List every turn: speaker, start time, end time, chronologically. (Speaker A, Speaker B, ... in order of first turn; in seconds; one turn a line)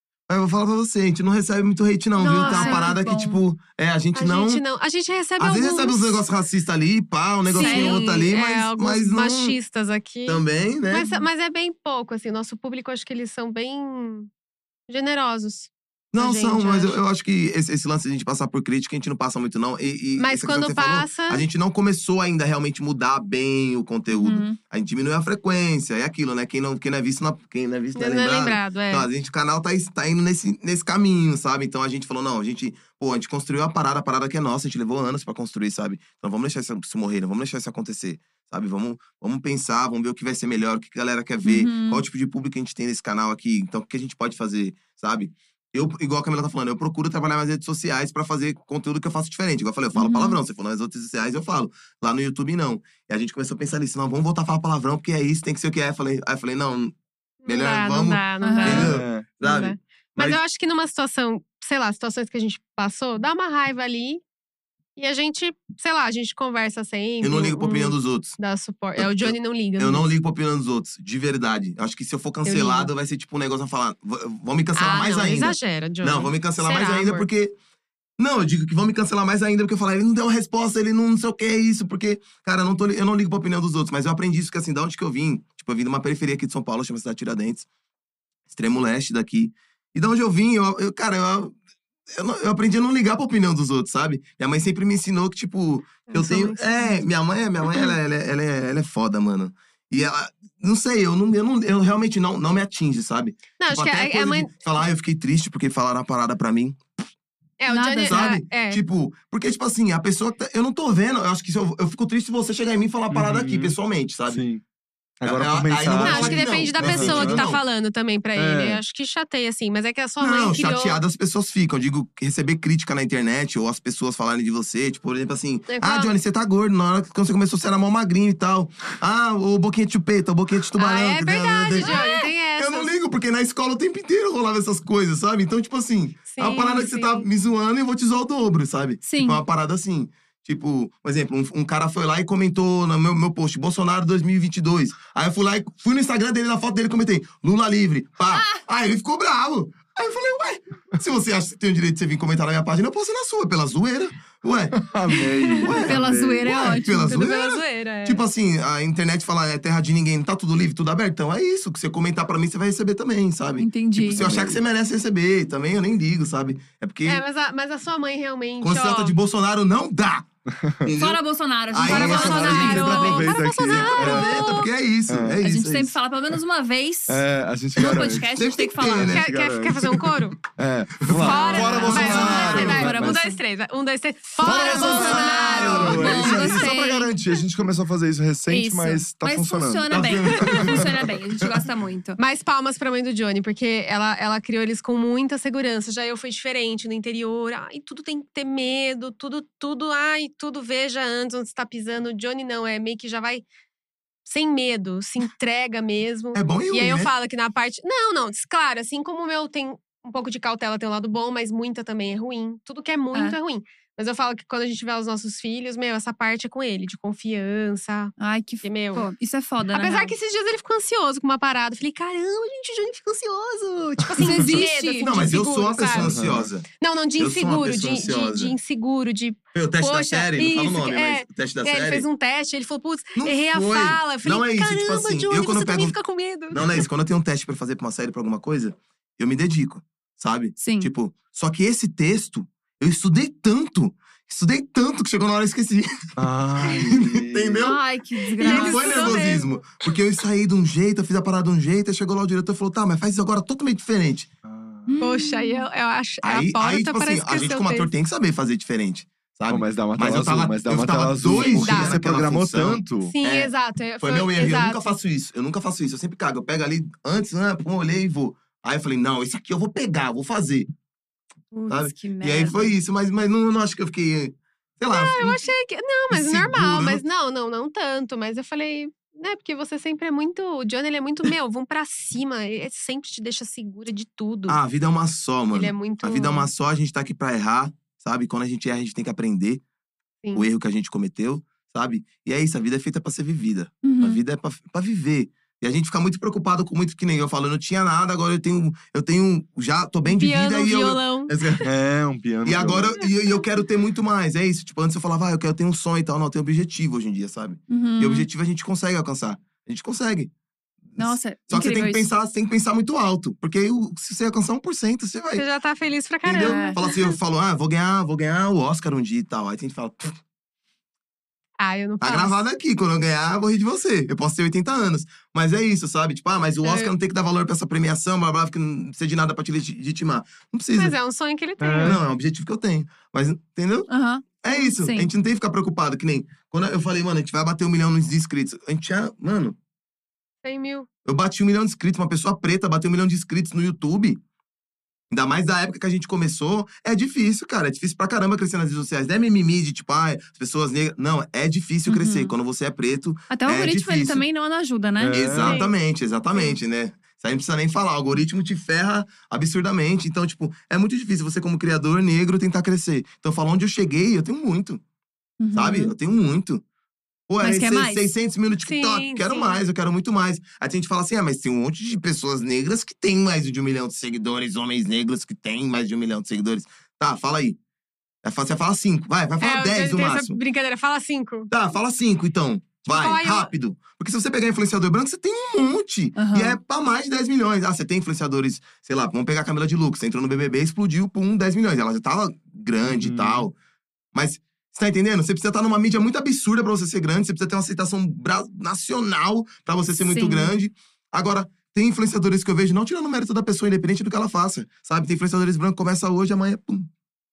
Speaker A: 0.3-4.6
Speaker B: 2.2-3.0
Speaker C: 2.2-3.4
Speaker B: 4.2-6.2
Speaker A: 5.4-9.6
Speaker B: 7.5-14.3
Speaker C: 7.5-8.0
Speaker A: 10.3-11.1
Speaker B: 14.9-17.0
Speaker A: 16.1-57.0
Speaker B: 20.2-21.5
Speaker C: 24.1-24.6
Speaker B: 27.9-29.1
Speaker C: 41.4-42.0
Speaker C: 50.0-50.4
Speaker B: 57.4-64.2
Speaker A: 57.5-60.4
Speaker C: 58.4-58.9
Speaker D: 58.7-59.3
Speaker B: 65.0-70.1
Speaker A: 67.2-68.4
Speaker A: 69.0-77.6
Speaker B: 72.5-72.9
Speaker B: 74.8-77.3
Speaker A: 78.2-87.7
Speaker A: 88.5-91.6
Speaker A: 92.2-106.8
Speaker B: 96.1-97.0
Speaker B: 103.6-104.5
Speaker B: 107.6-108.8
Speaker C: 107.7-108.3
Speaker A: 108.1-114.5
Speaker D: 113.1-113.8
Speaker D: 114.3-114.6
Speaker D: 115.2-117.6
Speaker A: 115.3-117.6
Speaker B: 115.9-121.0
Speaker D: 118.3-118.8
Speaker A: 120.2-154.9
Speaker B: 125.7-126.1
Speaker B: 130.8-132.9
Speaker B: 136.3-137.3
Speaker C: 139.0-139.4
Speaker D: 154.8-156.8
Speaker B: 155.2-155.7
Speaker A: 155.5-167.2
Speaker C: 155.8-157.2
Speaker B: 157.1-158.2
Speaker C: 163.6-164.2
Speaker D: 164.0-164.6
Speaker B: 167.1-169.2
Speaker A: 168.6-170.3
Speaker D: 170.5-170.9
Speaker A: 170.8-176.0
Speaker C: 171.0-173.1
Speaker B: 171.9-174.7
Speaker D: 171.9-174.4
Speaker D: 175.1-175.4
Speaker C: 175.4-179.2
Speaker D: 177.1-178.3
Speaker A: 177.8-179.2
Speaker D: 178.9-183.2
Speaker B: 178.9-180.4
Speaker A: 181.0-182.8
Speaker B: 181.1-186.4
Speaker C: 181.2-183.4
Speaker D: 184.4-190.8
Speaker A: 184.4-186.7
Speaker C: 184.7-187.1
Speaker C: 188.5-192.2
Speaker A: 189.9-190.9
Speaker B: 192.2-203.4
Speaker B: 204.3-219.1
Speaker A: 206.3-207.1
Speaker C: 218.2-220.1
Speaker B: 219.7-226.2
Speaker C: 224.2-225.2
Speaker A: 225.0-228.6
Speaker D: 226.0-226.5
Speaker B: 226.8-236.8
Speaker A: 229.5-232.1
Speaker A: 233.2-236.0
Speaker A: 236.5-247.8
Speaker C: 240.6-240.9
Speaker D: 246.2-247.7
Speaker C: 247.6-249.2
Speaker A: 248.4-254.3
Speaker B: 248.4-249.9
Speaker D: 254.4-254.9
Speaker C: 254.9-255.7
Speaker B: 255.0-257.9
Speaker A: 256.2-270.7
Speaker D: 259.5-263.1
Speaker B: 261.4-262.0
Speaker B: 263.0-264.9
Speaker C: 271.5-272.8
Speaker A: 271.7-275.5
Speaker B: 274.9-284.6
Speaker A: 276.1-277.0
Speaker A: 284.5-289.6
Speaker B: 285.5-286.5
Speaker A: 290.3-301.7
Speaker C: 293.8-294.2
Speaker B: 300.1-301.5
Speaker D: 301.6-303.0
Speaker A: 302.4-310.3
Speaker C: 307.7-308.3
Speaker A: 310.9-315.4
Speaker C: 311.0-312.1
Speaker B: 315.4-317.2
Speaker A: 316.2-320.2
Speaker C: 316.4-316.8
Speaker B: 321.6-322.4
Speaker A: 322.0-330.9
Speaker B: 326.6-326.9
Speaker B: 330.8-332.0
Speaker D: 331.6-332.0
Speaker A: 331.8-333.9
Speaker C: 333.9-335.1
Speaker A: 334.4-339.6
Speaker B: 340.4-340.9
Speaker A: 341.1-344.2
Speaker A: 345.1-354.2
Speaker C: 351.9-352.3
Speaker C: 353.3-355.3
Speaker D: 355.0-355.6
Speaker A: 355.1-364.8
Speaker B: 355.4-355.7
Speaker C: 365.4-365.9
Speaker A: 365.5-366.6
Speaker A: 367.3-377.6
Speaker C: 367.4-368.1
Speaker B: 368.6-369.6
Speaker A: 378.2-380.4
Speaker B: 379.4-381.5
Speaker A: 381.5-393.6
Speaker B: 382.9-383.5
Speaker C: 386.2-386.6
Speaker D: 392.8-393.5
Speaker A: 394.1-406.9
Speaker C: 400.0-400.6